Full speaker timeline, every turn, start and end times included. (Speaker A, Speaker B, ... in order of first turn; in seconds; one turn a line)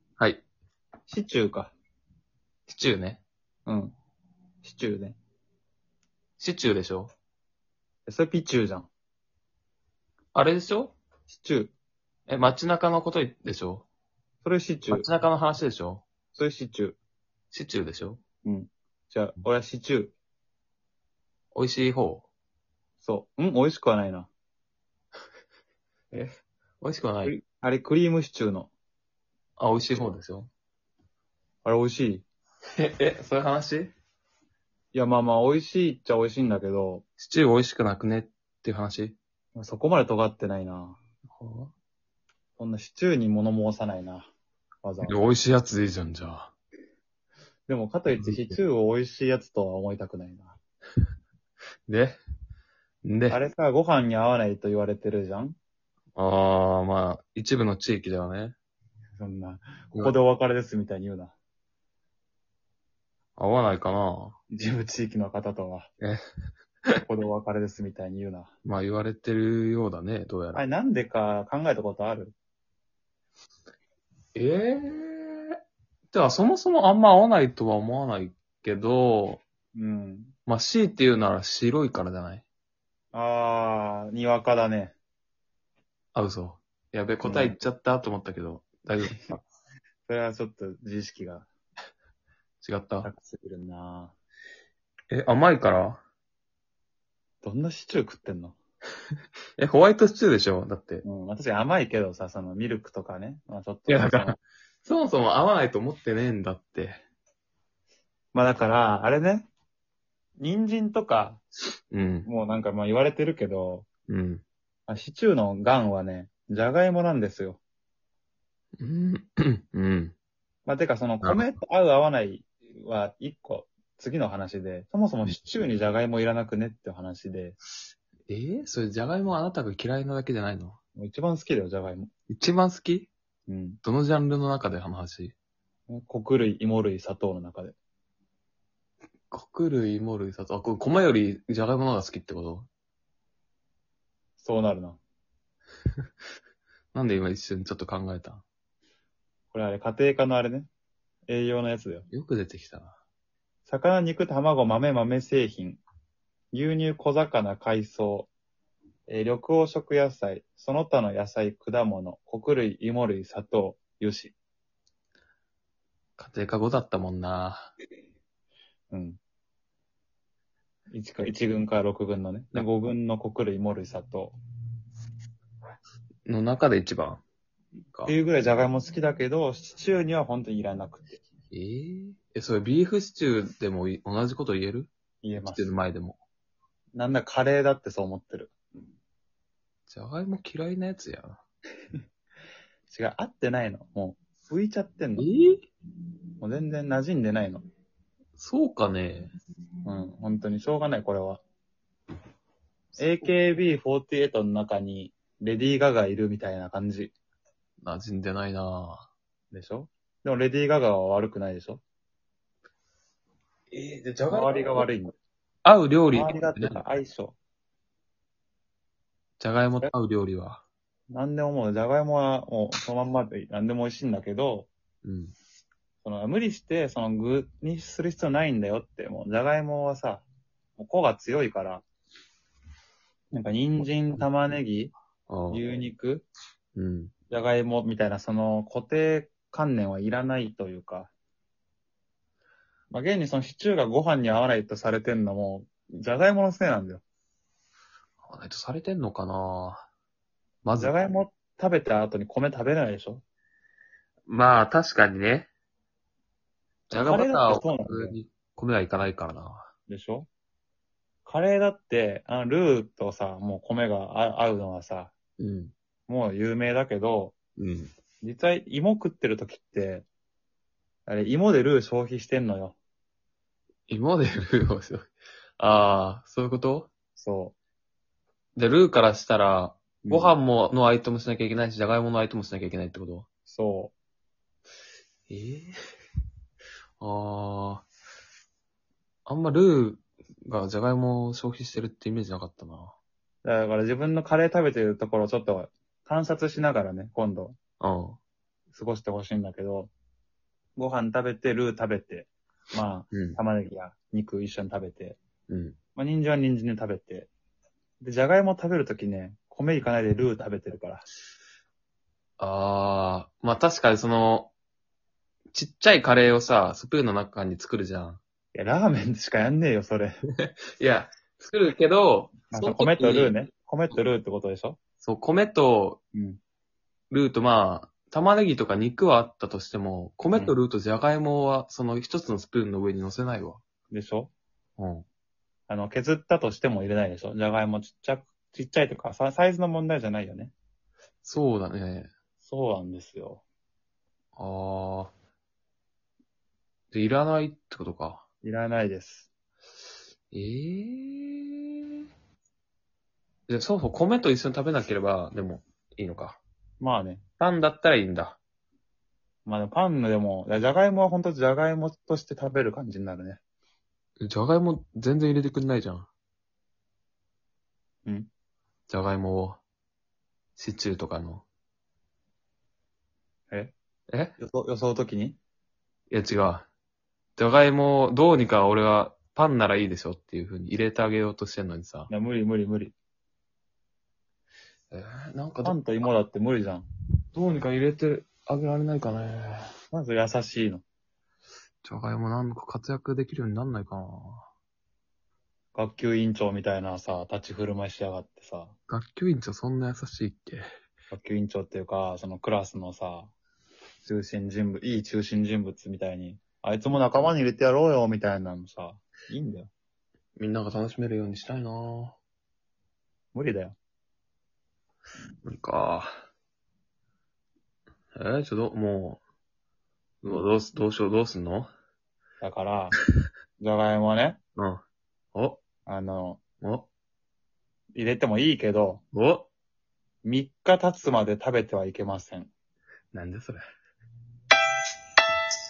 Speaker A: 0.2-0.4
Speaker B: 1.1-1.7
Speaker A: 2.7-3.2
Speaker B: 3.7-3.9
Speaker B: 4.6-5.2
Speaker A: 6.4-7.1
Speaker B: 8.1-8.9
Speaker A: 10.3-11.0
Speaker B: 11.3-11.7
Speaker A: 12.3-13.9
Speaker B: 14.4-15.1
Speaker A: 14.9-16.0
Speaker B: 16.3-17.0
Speaker A: 17.5-18.2
Speaker B: 18.4-20.1
Speaker A: 21.5-22.3
Speaker B: 23.0-24.3
Speaker A: 26.1-27.3
Speaker B: 27.2-28.7
Speaker A: 29.6-30.5
Speaker B: 31.6-32.3
Speaker A: 32.8-33.9
Speaker B: 34.9-37.0
Speaker A: 37.2-39.2
Speaker B: 39.5-41.0
Speaker A: 41.3-41.7
Speaker B: 42.6-44.3
Speaker B: 44.8-45.2
Speaker A: 45.0-46.5
Speaker B: 47.7-50.6
Speaker A: 48.1-48.6
Speaker A: 51.9-52.2
Speaker A: 53.0-53.4
Speaker B: 53.3-55.6
Speaker A: 56.2-58.5
Speaker B: 59.2-61.4
Speaker A: 63.4-64.4
Speaker B: 64.5-65.9
Speaker B: 67.0-68.5
Speaker A: 68.7-70.7
Speaker B: 70.5-72.3
Speaker A: 74.3-75.6
Speaker A: 76.1-79.4
Speaker B: 79.7-80.3
Speaker A: 80.5-82.5
Speaker B: 83.1-85.0
Speaker A: 86.2-89.4
Speaker B: 87.2-87.6
Speaker B: 90.1-91.5
Speaker A: 92.6-93.1
Speaker B: 93.0-94.2
Speaker A: 95.1-96.0
Speaker B: 97.4-98.6
Speaker A: 99.6-101.0
Speaker B: 101.0-104.4
Speaker A: 103.9-107.0
Speaker B: 108.3-109.5
Speaker B: 110.4-111.4
Speaker A: 111.9-112.3
Speaker B: 112.2-113.9
Speaker A: 114.1-114.4
Speaker B: 114.9-117.6
Speaker A: 118.8-120.1
Speaker B: 120.7-127.6
Speaker A: 121.2-121.6
Speaker A: 128.3-130.8
Speaker B: 131.0-132.1
Speaker A: 132.3-133.1
Speaker B: 133.5-133.8
Speaker A: 133.8-135.3
Speaker B: 135.9-137.8
Speaker A: 139.3-142.7
Speaker B: 144.4-145.0
Speaker A: 146.9-148.4
Speaker B: 149.5-150.7
Speaker B: 151.3-152.1
Speaker A: 152.1-153.0
Speaker B: 153.7-155.8
Speaker B: 156.5-158.3
Speaker B: 159.1-164.3
Speaker A: 166.2-167.7
Speaker B: 168.9-169.2
Speaker B: 170.9-174.3
Speaker A: 176.2-177.2
Speaker B: 178.1-181.2
Speaker A: 181.5-186.2
Speaker B: 185.2-185.8
Speaker B: 186.9-188.5
Speaker A: 189.9-191.4
Speaker B: 192.9-195.3
Speaker A: 195.2-195.7
Speaker B: 196.4-197.6
Speaker A: 198.4-199.3
Speaker B: 199.8-201.4
Speaker B: 203.0-207.1
Speaker A: 207.8-209.1
Speaker B: 209.5-211.8
Speaker A: 213.7-214.9
Speaker B: 214.3-215.1
Speaker A: 215.7-216.8
Speaker B: 216.1-217.4
Speaker A: 219.4-220.6
Speaker B: 221.1-224.7
Speaker A: 225.0-225.3
Speaker B: 226.0-230.2
Speaker B: 230.8-231.8
Speaker B: 233.3-234.9
Speaker A: 235.3-235.7
Speaker B: 235.5-236.3
Speaker A: 236.8-237.1
Speaker B: 237.3-241.1
Speaker B: 242.9-247.0
Speaker A: 248.2-249.9
Speaker A: 250.6-251.0
Speaker B: 250.8-253.2
Speaker A: 254.3-255.5
Speaker B: 256.9-258.2
Speaker A: 256.9-259.7
Speaker B: 259.9-260.3
Speaker B: 261.2-265.1
Speaker A: 265.4-265.7
Speaker B: 266.1-267.4
Speaker A: 267.6-267.9
Speaker B: 268.2-270.1
Speaker B: 271.1-272.8
Speaker A: 273.9-276.9
Speaker B: 277.2-277.6
Speaker A: 278.6-283.3
Speaker B: 280.1-280.4
Speaker B: 283.5-283.9
Speaker A: 285.3-285.7
Speaker A: 287.0-287.9
Speaker A: 289.3-293.0
Speaker B: 293.4-297.6
Speaker A: 297.8-298.2
Speaker B: 298.7-299.9
Speaker B: 300.8-305.2
Speaker A: 303.1-303.4
Speaker A: 305.5-305.8
Speaker B: 306.0-307.3
Speaker B: 308.0-311.1
Speaker A: 312.4-314.5
Speaker A: 315.5-318.2
Speaker B: 318.5-320.1
Speaker A: 320.4-323.4
Speaker B: 322.5-324.8
Speaker A: 325.0-326.0
Speaker B: 326.1-326.4
Speaker A: 327.1-333.6
Speaker B: 333.9-334.3
Speaker A: 334.8-335.1
Speaker B: 335.7-340.5
Speaker A: 341.2-342.1
Speaker B: 342.4-343.4
Speaker A: 344.4-345.1
Speaker A: 346.9-348.2
Speaker B: 348.4-349.3
Speaker A: 350.3-351.7
Speaker A: 353.5-356.4
Speaker B: 356.8-357.2
Speaker A: 357.4-358.4
Speaker B: 359.5-363.4
Speaker A: 364.2-366.1
Speaker A: 368.9-369.6
Speaker A: 370.6-371.4
Speaker A: 374.1-374.4
Speaker B: 374.4-375.4
Speaker A: 376.1-376.7
Speaker A: 377.4-382.1
Speaker B: 382.1-382.9
Speaker A: 384.9-385.9
Speaker B: 385.6-386.9
Speaker A: 387.3-389.7
Speaker B: 389.9-390.8
Speaker A: 391.8-394.5
Speaker B: 395.8-398.8
Speaker A: 398.9-400.7
Speaker B: 401.1-403.3
Speaker B: 404.0-409.7
Speaker A: 410.4-412.2
Speaker B: 413.3-413.8
Speaker A: 415.4-416.1
Speaker A: 418.1-419.2
Speaker A: 420.2-421.7
Speaker B: 422.4-423.0
Speaker B: 423.6-424.4
Speaker A: 424.6-424.8
Speaker A: 425.3-425.6
Speaker B: 425.9-426.4
Speaker A: 426.6-426.9
Speaker B: 427.9-429.0
Speaker A: 429.1-429.5
Speaker B: 430.2-432.5
Speaker A: 433.1-433.6